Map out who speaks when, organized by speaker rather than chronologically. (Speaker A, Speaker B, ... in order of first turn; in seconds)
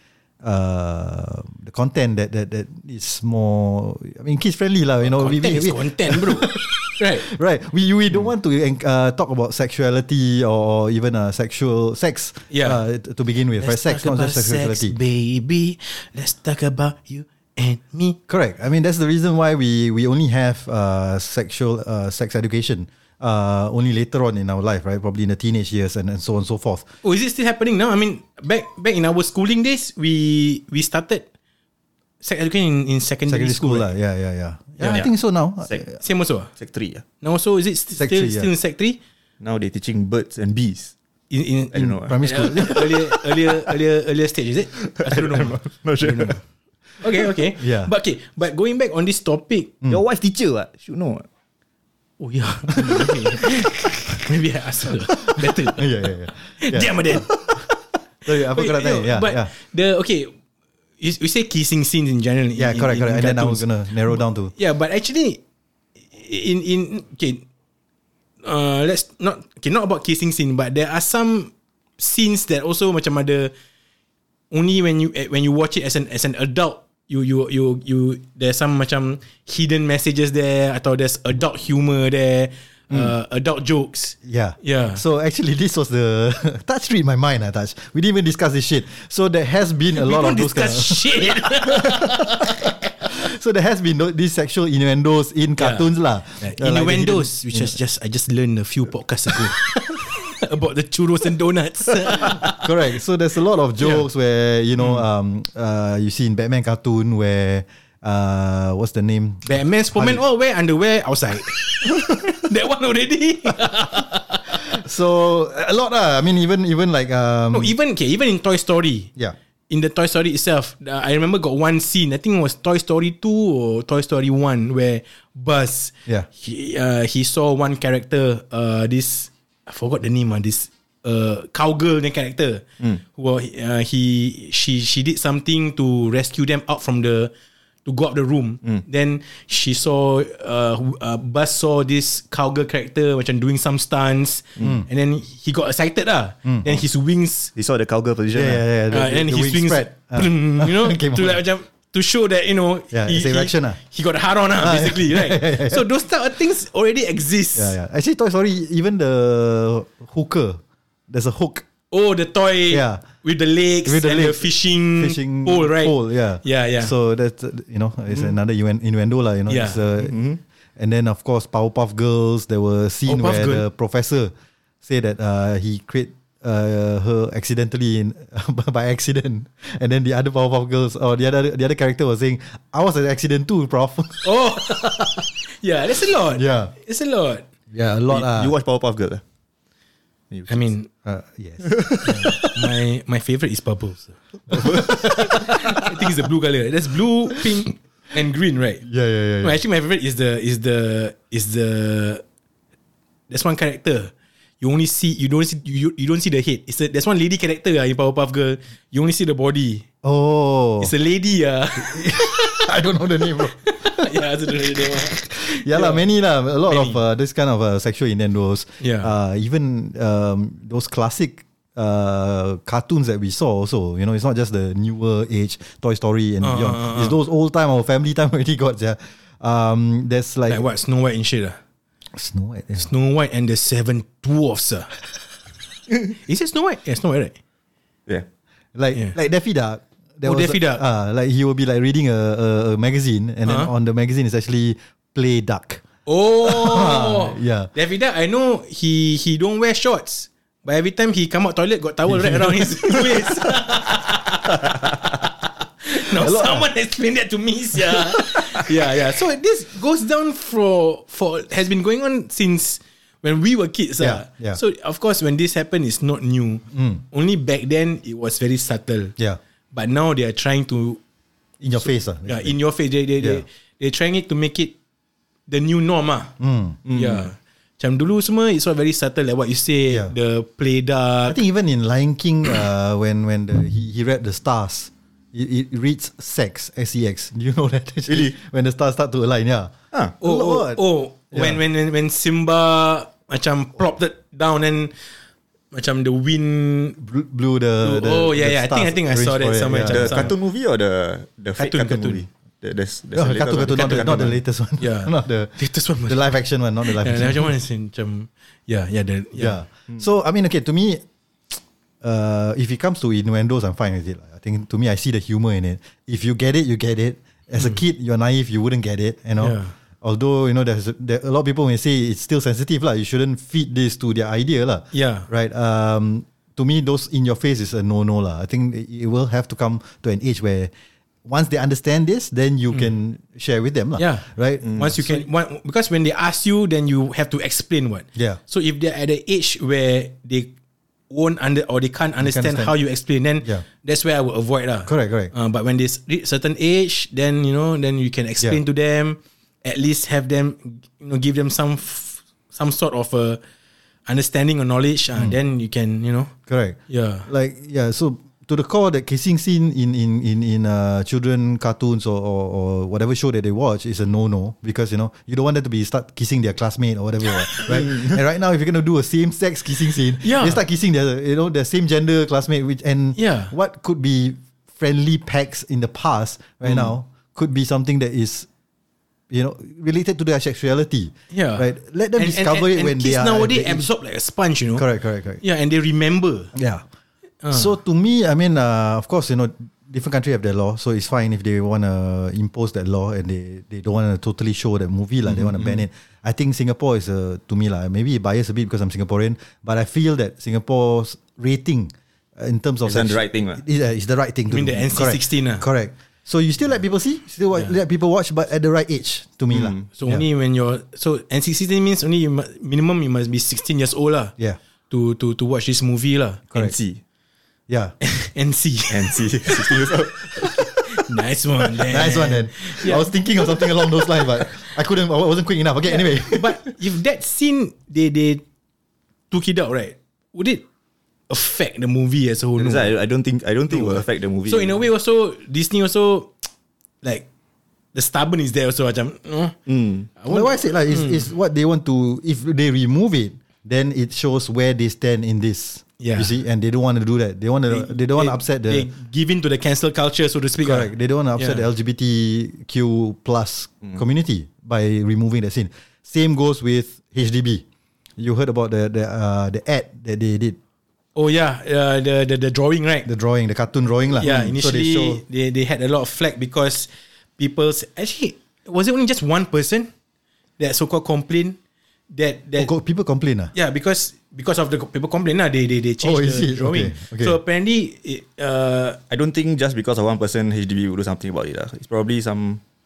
Speaker A: 0.4-14.9, 18.3-26.9, 33.3-36.0, 38.0-38.5, 41.7-42.9, 47.6-47.9, 55.3-57.6, 58.2-59.5, 62.5-64.5, 84.2-92.4, 93.0-97.7, 102.2-110.2, 114.7-117.7, 144.6-144.9, 148.3-151.4, 152.9-153.8, 154.6-155.8, 157.6-161.6, 162.7-163.0, 163.8-170.1, 170.8-174.3, 174.8-184.7, 186.3-186.7, 187.7-188.5, 191.0-192.3, 194.5-195.4, 198.8-199.6, 210.0-210.9, 211.8-230.6, 232.1-232.9, 238.7-245.8, 246.4-247.7, 252.1-253.0, 256.1-256.7, 264.0-264.6, 266.7-267.0, 271.6-272.5, 273.2-273.4, 276.4-276.8, 281.3-291.6, 297.0-300.3, 303.1-307.5, 309.4-330.7, 331.2-335.2, 342.2-342.7, 344.9-345.3, 356.5-378.5, 379.3-383.9, 384.8-385.4, 386.5-386.8, 387.5-410.2, 417.7-417.9, 421.9-426.6, 440.3-448.9, 450.6-457.6, 458.2-460.6, 463.1-465.2, 472.6-473.5, 476.0-477.4
Speaker B: 5.0-7.3, 12.5-12.8, 13.6-18.2, 27.0-31.2, 32.2-33.9, 34.8-35.1, 36.0-36.5, 37.2-39.0, 41.3-46.3, 47.0-49.7, 52.2-56.1, 56.6-57.6, 58.5-60.3, 61.0-65.4, 66.0-67.4, 68.4-73.5, 74.5-85.0, 90.0-92.5, 95.6-102.6, 103.8-104.0, 109.5-114.7, 117.5-119.1, 119.7-137.3, 137.8-147.5, 148.9-157.7, 161.9-166.9, 169.5-169.8, 173.1-173.6, 184.2-187.4, 190.5-190.9, 192.1-198.8, 199.4-202.2, 203.3-209.8, 210.8-212.7, 213.6-216.0, 216.7-217.0, 218.8-219.1, 226.4-227.1, 230.5-231.6, 232.8-235.0, 236.1-237.4, 240.2-240.8, 246.1-254.8, 255.8-269.1, 269.7-271.0, 272.2-274.7, 275.5-276.3, 276.9-281.4, 290.2-294.9, 295.7-297.0, 297.8-300.3, 301.6-302.2, 303.7-306.2, 306.8-309.6, 319.4-319.7, 324.9-325.3, 334.0-340.5, 341.1-353.4, 354.1-356.3, 356.9-357.3, 370.2-370.6, 373.1-373.5, 381.3-384.9, 385.4-386.5, 387.4-387.7, 404.5-405.6, 409.9-414.3, 414.9-416.4, 418.0-419.7, 420.4-423.1, 425.9-428.4, 429.3-430.6, 431.3-432.9, 433.7-436.5, 437.9-439.6, 440.1-441.3, 446.0-446.3, 447.7-451.6, 461.1-463.1, 464.2-469.9, 470.6-471.6, 472.1-472.7, 473.5-479.0
Speaker C: 36.5-37.0, 39.4-40.9, 41.7-43.0, 44.8-46.4, 49.9-51.2, 147.5-148.6, 170.0-170.4, 188.1-189.2, 190.3-190.7, 191.6-192.5, 194.6-194.8, 276.8-277.3, 288.1-288.3, 299.9-304.4, 334.6-334.9, 367.7-368.2, 402.9-403.6, 409.5-409.9, 416.5-417.0, 418.9-420.7, 432.6-434.8, 439.7-440.1, 479.1-482.6